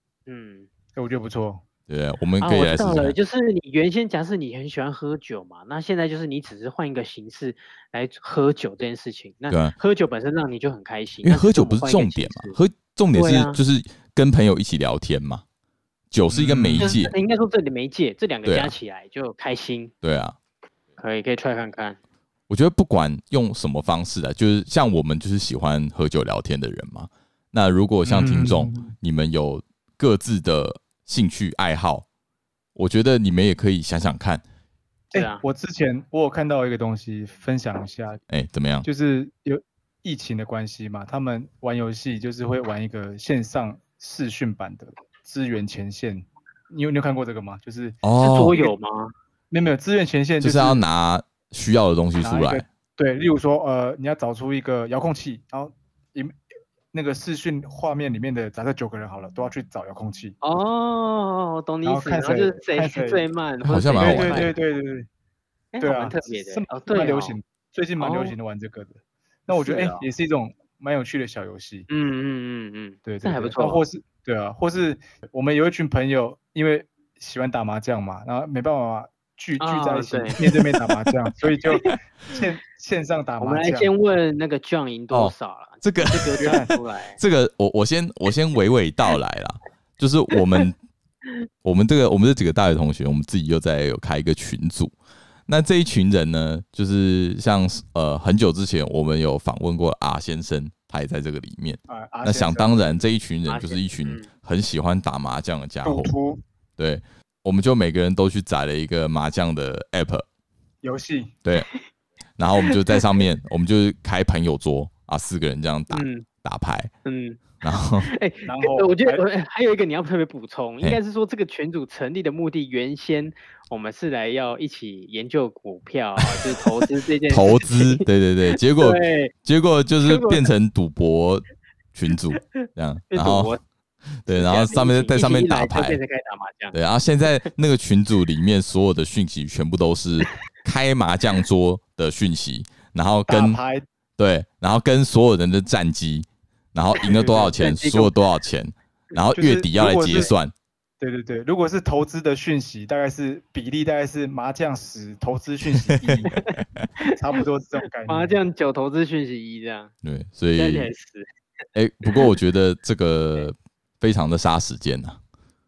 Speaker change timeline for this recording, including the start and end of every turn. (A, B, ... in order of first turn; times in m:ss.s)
0:00.3-0:00.7 A
0:01.0-0:01.6 B
0:01.9-0:03.2 C
0:02.4-0:12.6 A
0:11.2-0:15.4 C
0:13.1-0:13.6 A
0:16.1-0:17.1 C
0:16.3-0:17.0 B
0:16.8-0:19.9 A
0:18.5-0:18.7 C
0:20.0-0:20.4 C
0:21.0-0:22.0 A
0:22.5-0:32.1 C
0:28.0-0:28.9 B
0:32.8-0:34.4 C
0:35.1-0:38.2 B
0:35.1-0:35.4 A
0:38.3-0:38.9 C
0:38.8-0:48.0 B
0:48.0-0:48.5 C
0:48.2-0:49.1 A
0:49.5-0:50.8 B
0:50.4-0:52.6 C
0:52.2-0:56.4 B
0:56.9-1:00.4 B
1:00.4-1:04.5 A
1:01.8-1:03.3 B
1:03.6-1:04.5 C
1:04.0-1:05.1 B
1:05.7-1:07.4 A
1:05.8-1:11.9 B
1:08.0-1:08.4 A
1:09.5-1:10.1 A
1:11.9-1:13.8 A
1:13.0-1:23.9 B
1:19.6-1:20.4 A
1:23.4-1:27.2 A
1:25.1-1:26.6 C
1:26.4-1:26.8 B
1:27.2-1:30.8 C
1:31.6-1:35.0 C
1:35.5-1:46.1 C
1:41.9-1:43.0 B
1:43.5-1:44.3 A
1:45.8-1:46.4 B
1:46.8-1:50.2 C
1:50.8-1:51.4 B
1:52.4-1:56.9 C
1:52.6-1:53.0 A
1:55.9-1:56.3 A
1:57.0-2:08.1 A
1:57.6-1:58.1 C
1:58.5-1:59.2 B
2:06.3-2:06.6 C
2:07.3-2:13.5 C
2:08.8-2:09.3 A
2:10.0-2:10.5 A
2:12.6-2:13.6 A
2:14.2-2:16.0 C
2:14.3-2:16.8 A
2:16.7-2:23.6 C
2:23.3-2:23.9 B
2:24.2-2:30.5 C
2:27.0-2:27.6 B
2:27.4-2:28.1 A
2:29.3-2:30.3 B
2:31.0-2:36.4 B
2:35.9-2:36.8 C
2:36.3-2:37.2 A
2:37.1-2:38.4 B
2:38.1-2:39.9 A
2:40.0-2:40.9 C
2:40.6-2:41.3 A
2:41.8-2:45.2 C
2:42.0-2:42.4 A